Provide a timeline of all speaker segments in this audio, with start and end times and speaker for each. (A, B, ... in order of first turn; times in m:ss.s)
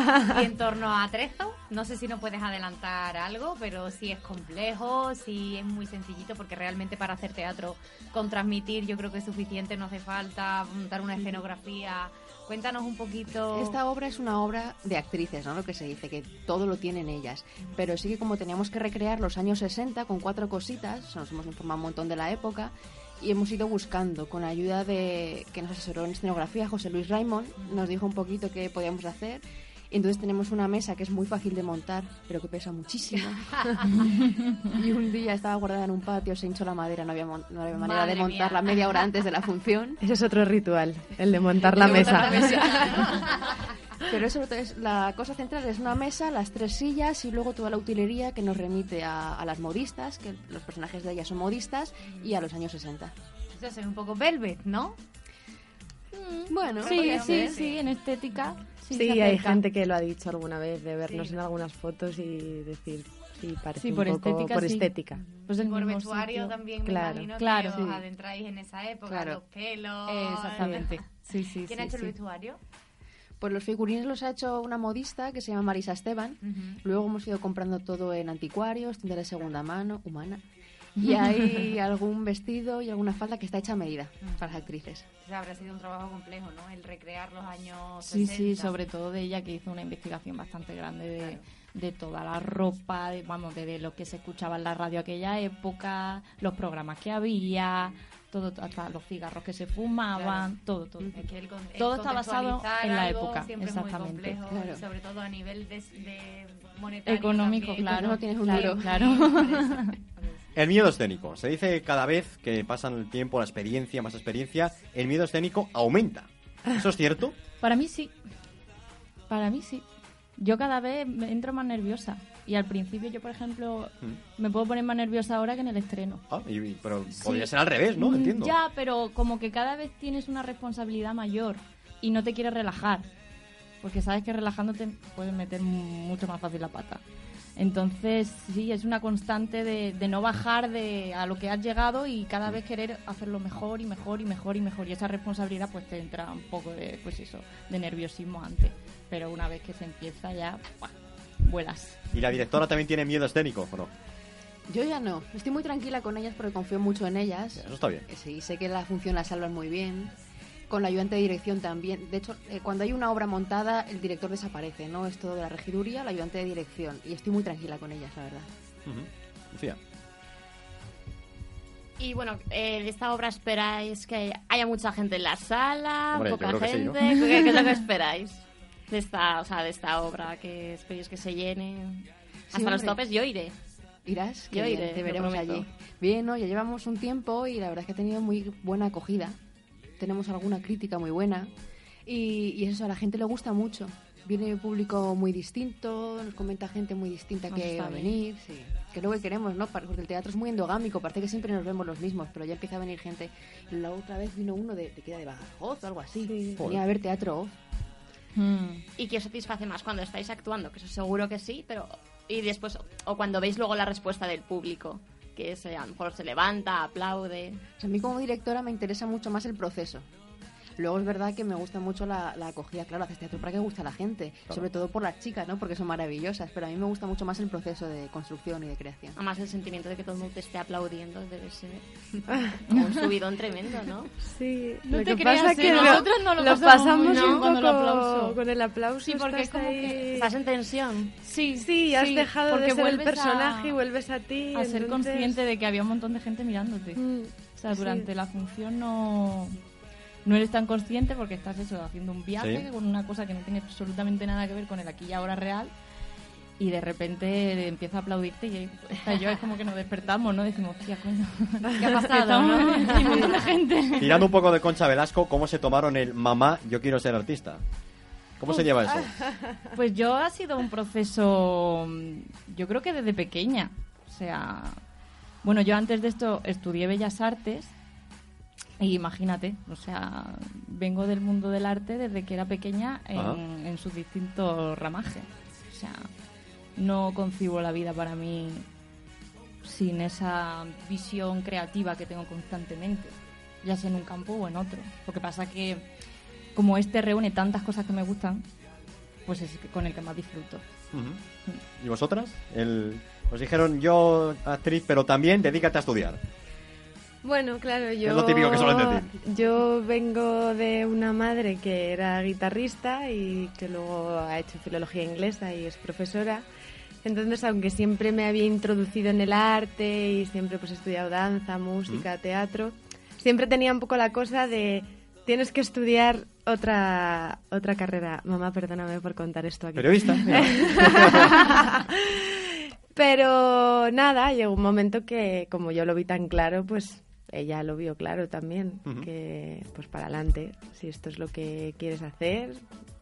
0:00.3-0:13.8 A
0:13.5-0:34.0 B
0:34.6-0:40.0 B
0:37.7-0:38.7 A
0:40.0-0:42.5 C
0:41.6-0:43.2 B
0:41.8-0:43.0 A
0:44.1-0:53.1 B
0:53.6-0:55.0 A
0:56.1-0:59.6 D
0:56.5-0:57.6 B
0:56.8-0:57.8 A
0:58.9-1:05.2 C
1:01.0-1:01.4 A
1:03.8-1:06.6 D
1:05.2-1:11.0 A
1:06.8-1:07.3 C
1:07.4-1:07.9 D
1:07.8-1:08.0 B
1:10.0-1:12.1 D
1:11.6-1:12.6 A
1:13.4-1:20.4 B
1:16.4-1:16.8 A
1:21.0-1:21.6 D
1:21.0-1:25.0 B
1:24.2-1:24.6 A
1:25.2-1:28.7 A
1:28.0-1:41.2 D
1:40.1-1:40.5 A
1:41.0-1:50.4 A
1:41.8-1:44.4 D
1:44.5-1:44.8 B
1:47.0-1:49.9 D
1:47.8-1:48.9 B
1:50.5-1:57.3 E
1:57.6-1:58.1 D
1:59.3-1:59.9 D
2:00.4-2:06.2 D
2:06.3-2:08.5 E
2:07.2-2:13.0 D
2:13.8-2:17.0 D
2:17.6-2:32.4 D
2:32.1-2:33.9 E
2:34.7-2:40.1 B
2:37.5-2:38.1 E
2:40.7-2:48.5 B
2:48.8-2:49.8 E
2:52.0-3:03.6 F
2:56.1-2:57.0 E
3:02.5-3:03.0 B
3:04.0-3:09.4 B
3:04.5-3:05.6 F
3:10.0-3:11.5 B
3:12.1-3:27.6 B
3:17.5-3:18.1 D
3:26.1-3:26.6 C
3:26.6-3:26.8 E
3:28.4-3:28.8 D
3:29.0-3:37.6 F
3:37.8-3:40.1 B
3:40.8-3:49.1 B
3:49.2-3:54.1 F
3:54.2-4:00.3 C
3:54.8-3:58.4 D
3:55.7-3:56.0 F
3:57.0-3:57.4 F
3:59.0-4:00.1 D
4:00.1-4:01.1 F
4:01.2-4:03.8 D
4:01.5-4:05.4 C
4:04.5-4:09.6 D
4:07.0-4:08.1 C
4:10.2-4:15.7 D
4:12.4-4:12.6 E
4:16.6-4:24.3 D
4:21.7-4:23.4 A
4:24.0-4:27.6 E
4:28.4-4:29.1 E
4:29.7-4:34.8 D
4:35.4-4:37.7 D
4:38.8-4:46.1 D
4:46.8-4:48.7 D
4:49.6-4:55.9 D
4:56.6-4:58.4 D
4:59.2-5:00.6 D
5:00.9-5:01.2 E
5:01.8-5:06.2 E
5:07.2-5:16.4 C
5:08.0-5:09.1 E
5:17.0-5:32.3 C
5:29.8-5:31.4 E
5:32.9-5:42.6 C